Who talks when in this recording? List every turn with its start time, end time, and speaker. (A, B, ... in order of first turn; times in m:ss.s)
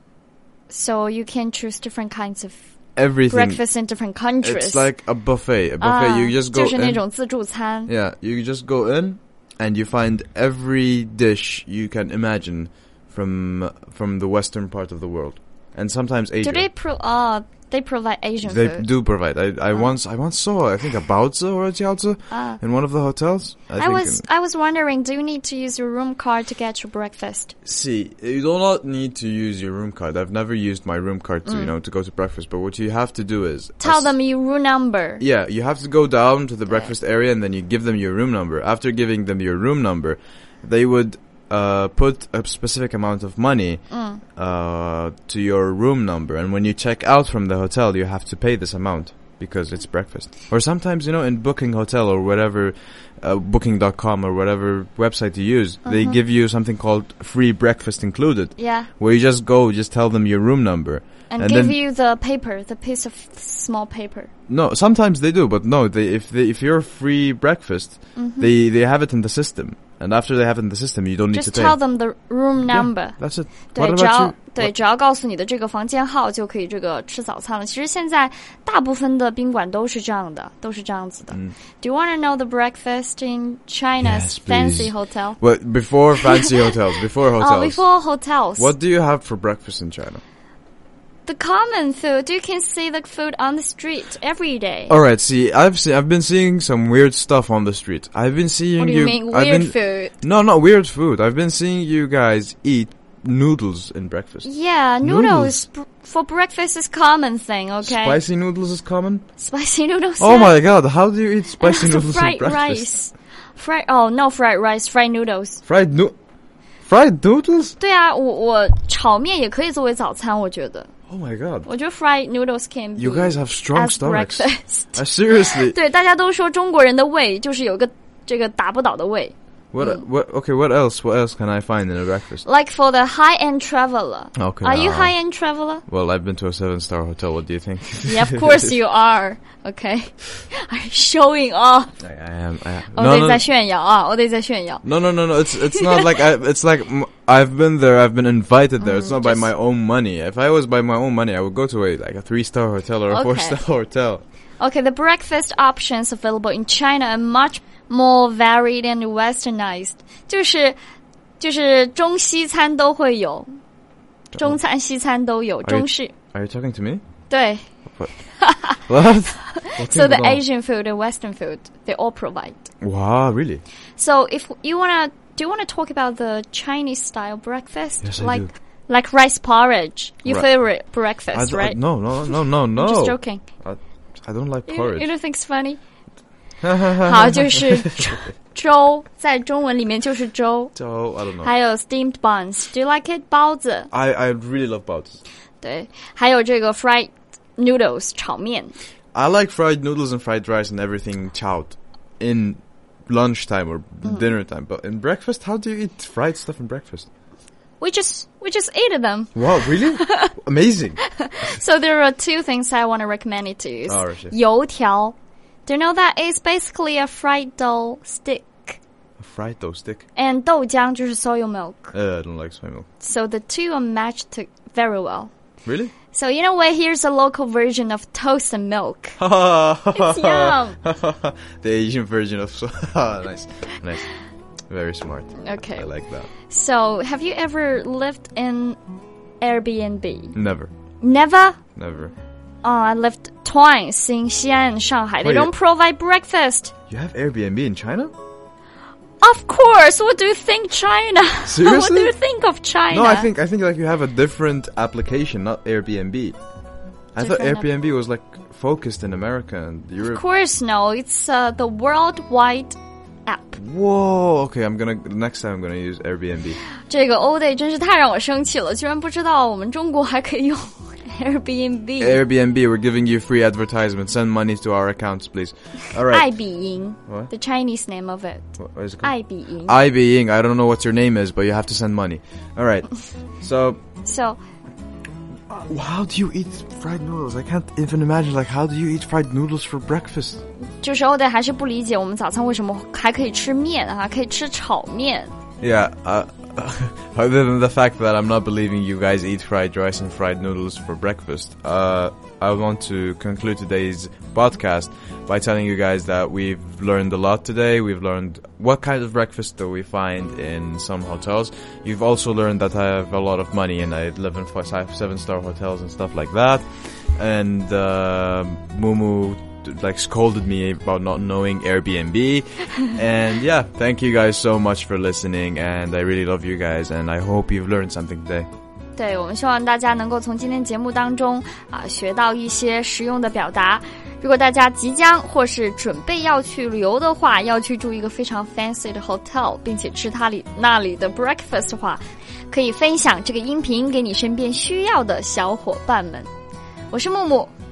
0:00.7-0:05.0 A
0:03.0-0:03.9 B
0:04.4-0:07.2 B
0:05.8-0:07.9 A
0:07.9-0:16.7 B
0:16.4-0:19.1 A
0:18.4-0:24.2 B
0:22.3-0:22.6 A
0:23.8-0:27.5 A
0:27.6-0:34.2 B
0:31.5-0:31.7 A
0:33.8-0:35.2 A
0:35.2-1:01.8 B
0:36.7-0:36.9 A
0:43.9-0:44.2 A
0:55.8-0:56.2 A
0:58.6-0:58.9 A
1:01.3-1:04.3 A
1:04.5-1:11.8 B
1:08.2-1:08.5 A
1:11.3-1:25.4 A
1:12.6-1:14.7 B
1:24.0-1:27.9 B
1:27.4-1:28.7 A
1:28.6-1:30.2 B
1:31.3-1:35.0 A
1:34.9-1:45.6 B
1:38.8-1:40.1 A
1:44.4-1:48.2 A
1:47.8-1:49.3 B
1:49.4-1:50.6 A
1:50.2-1:52.9 B
1:51.6-1:55.6 A
1:55.6-1:56.2 B
1:56.8-1:57.8 B
1:57.8-2:00.9 A
2:01.1-2:01.7 B
2:01.6-2:10.0 A
2:03.0-2:05.8 B
2:09.7-2:12.5 B
2:12.4-2:15.8 A
2:14.4-2:15.3 B
2:15.8-2:18.7 B
2:18.1-2:22.0 A
2:22.0-2:23.4 B
2:22.9-2:24.9 A
2:24.8-2:34.2 B
2:25.7-2:26.1 A
2:28.8-2:29.5 A
2:33.1-2:33.6 A
2:34.6-2:40.8 A
2:41.4-2:43.5 A
2:44.3-2:46.1 A
2:45.6-2:47.0 B
2:47.3-2:48.8 A
2:47.9-2:50.4 B
2:49.4-2:52.7 A
2:52.8-2:53.6 B
2:54.0-3:03.4 A
2:58.0-2:58.5 B
3:00.2-3:05.1 B
3:04.7-3:05.8 A
3:06.6-3:07.7 B
3:07.0-3:13.9 A
3:10.8-3:11.5 B
3:13.9-3:15.2 B
3:15.6-3:18.8 A
3:19.1-3:27.1 B
3:27.8-3:30.3 A
3:29.4-3:31.6 B
3:31.2-3:38.8 A
3:33.9-3:34.4 B
3:39.2-3:40.0 B
3:40.2-3:41.9 A
3:41.9-3:42.9 B
3:43.0-3:45.3 A
3:45.6-3:45.9 B
3:46.1-3:49.2 A
3:49.2-3:54.1 B
3:49.9-3:50.8 A
3:54.7-3:56.3 B
3:55.4-3:58.8 A
3:59.4-4:00.4 A
4:00.3-4:00.7 B
4:01.0-4:01.6 A
4:01.8-4:02.1 B
4:02.6-4:06.7 A
4:05.2-4:05.5 B
4:06.9-4:08.1 B
4:09.2-4:13.3 A
4:11.5-4:12.2 B
4:12.9-4:16.4 B
4:17.1-4:20.2 B
4:17.2-4:17.7 A
4:20.0-4:23.6 A
4:23.6-4:26.6 B
4:26.9-4:32.2 A
4:32.0-4:36.4 B
4:36.1-4:39.7 A
4:37.1-4:37.3 B
4:38.6-4:43.8 B
4:44.0-4:44.4 A
4:45.5-4:50.4 B
4:50.8-4:55.3 A
4:55.6-5:28.5 B
5:29.0-5:46.3 A
5:46.9-5:47.5 A